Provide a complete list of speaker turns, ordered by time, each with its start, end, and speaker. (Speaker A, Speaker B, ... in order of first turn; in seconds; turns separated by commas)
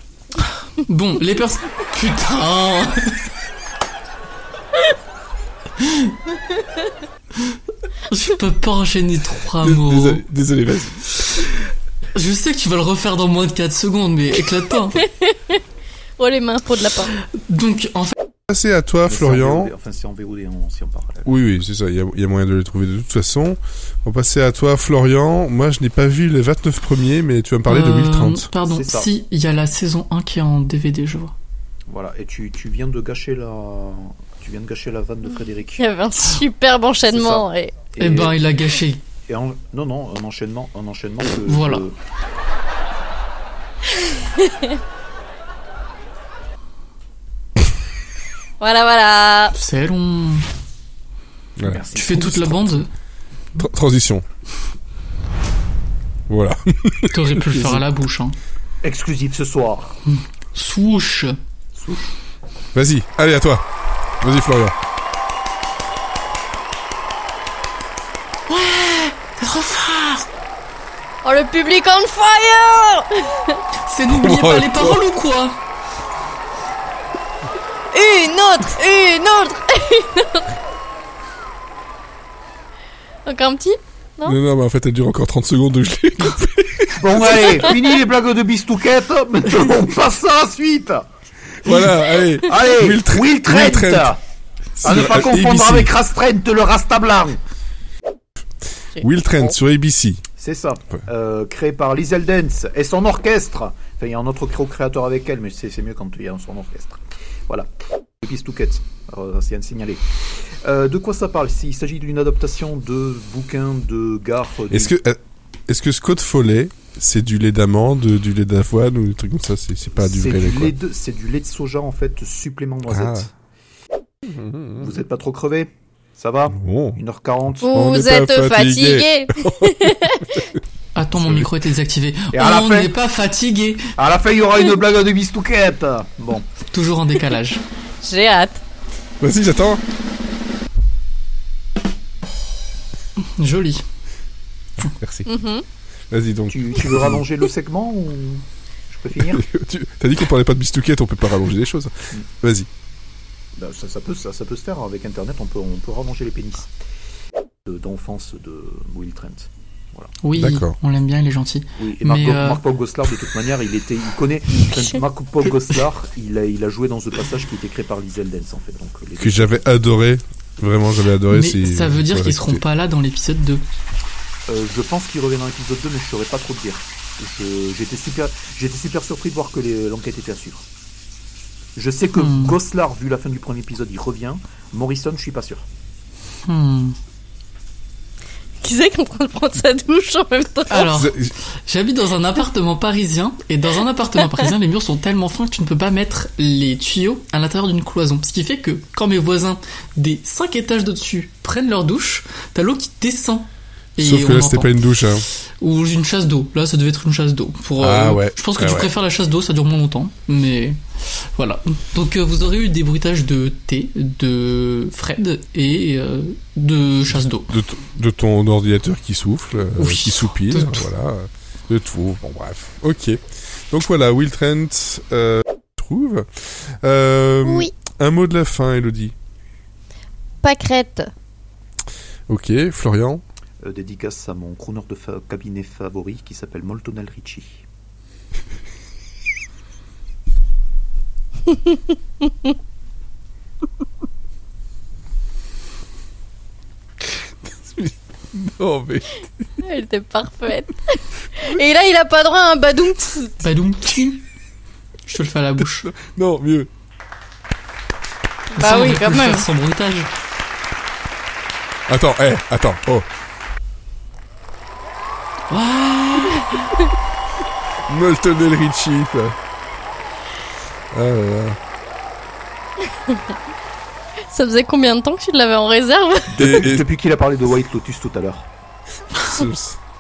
Speaker A: 0.8-3.3, Speaker A: 5.8-6.1, Speaker A: 8.1-10.2, Speaker B: 9.6-11.1, Speaker A: 12.1-15.0, Speaker C: 15.1-15.3, Speaker C: 16.2-17.1, Speaker A: 17.4-18.1, Speaker B: 18.5-19.7, Speaker D: 19.1-21.3, Speaker B: 21.2-28.5, Speaker A: 27.7-31.4, Speaker D: 28.6-29.1, Speaker D: 31.9-35.9, Speaker C: 35.8-37.8, Speaker D: 37.1-38.4, Speaker A: 38.0-39.0, Speaker D: 39.3-42.0, Speaker A: 41.5-41.8, Speaker C: 44.4-44.7, Speaker C: 48.6-49.5, Speaker A: 49.5-50.5, Speaker B: 51.6-52.2, Speaker D: 51.7-52.7, Speaker A: 51.9-52.9, Speaker B: 53.6-54.2, Speaker B: 56.3-57.8, Speaker A: 57.1-58.4, Speaker D: 58.8-60.0, Speaker A: 60.1-61.4, Speaker D: 61.8-62.1, Speaker B: 62.7-63.6, Speaker B: 64.2-64.7, Speaker A: 68.5-70.3, Speaker C: 71.2-73.6, Speaker A: 73.9-75.6, Speaker B: 74.1-75.0, Speaker C: 77.9-80.5, Speaker C: 83.2-84.4, Speaker B: 84.2-87.7, Speaker D: 87.0-91.1, Speaker B: 91.6-94.1, Speaker D: 92.4-94.2, Speaker B: 94.8-95.9, Speaker D: 94.8-97.4, Speaker B: 99.0-100.2, Speaker D: 100.4-107.7, Speaker D: 108.2-110.0, Speaker D: 110.6-114.9, Speaker B: 114.7-120.7, Speaker D: 119.9-123.3, Speaker B: 122.9-123.3, Speaker B: 124.3-124.8, Speaker D: 124.8-127.6, Speaker B: 126.5-127.0, Speaker B: 127.6-130.5, Speaker C: 127.6-130.3, Speaker A: 130.9-133.8, Speaker B: 131.2-131.5, Speaker D: 132.3-132.9, Speaker D: 134.0-136.5, Speaker A: 136.7-137.6, Speaker C: 138.0-138.6, Speaker B: 139.2-139.8, Speaker A: 143.4-143.8, Speaker B: 144.8-145.3, Speaker C: 145.3-145.6, Speaker B: 146.1-147.2, Speaker D: 146.5-149.4, Speaker B: 149.3-152.7, Speaker D: 153.6-156.7, Speaker D: 157.7-160.1, Speaker A: 160.2-162.6, Speaker B: 160.3-160.8, Speaker D: 161.8-169.7, Speaker B: 169.2-172.6, Speaker A: 171.3-173.6, Speaker D: 174.5-180.7, Speaker D: 181.8-185.7, Speaker A: 182.1-182.6, Speaker A: 186.5-187.0, Speaker C: 188.6-190.9, Speaker A: 190.7-204.8, Speaker B: 190.8-191.3, Speaker B: 204.0-205.3, Speaker A: 205.6-217.5, Speaker B: 207.8-208.9, Speaker B: 217.1-229.1, Speaker A: 219.8-220.9, Speaker C: 227.4-227.7, Speaker C: 230.4-231.1, Speaker B: 232.3-233.2, Speaker D: 233.6-237.6, Speaker B: 247.4-249.3, Speaker C: 249.6-253.4, Speaker A: 253.4-254.3, Speaker A: 255.1-255.9, Speaker B: 255.8-256.7, Speaker C: 258.5-259.5, Speaker A: 258.6-260.1, Speaker B: 261.9-263.1, Speaker A: 265.5-266.6, Speaker B: 267.9-269.4, Speaker B: 270.9-271.6, Speaker C: 274.3-276.6, Speaker D: 276.3-278.5, Speaker B: 276.4-276.9, Speaker B: 279.2-279.8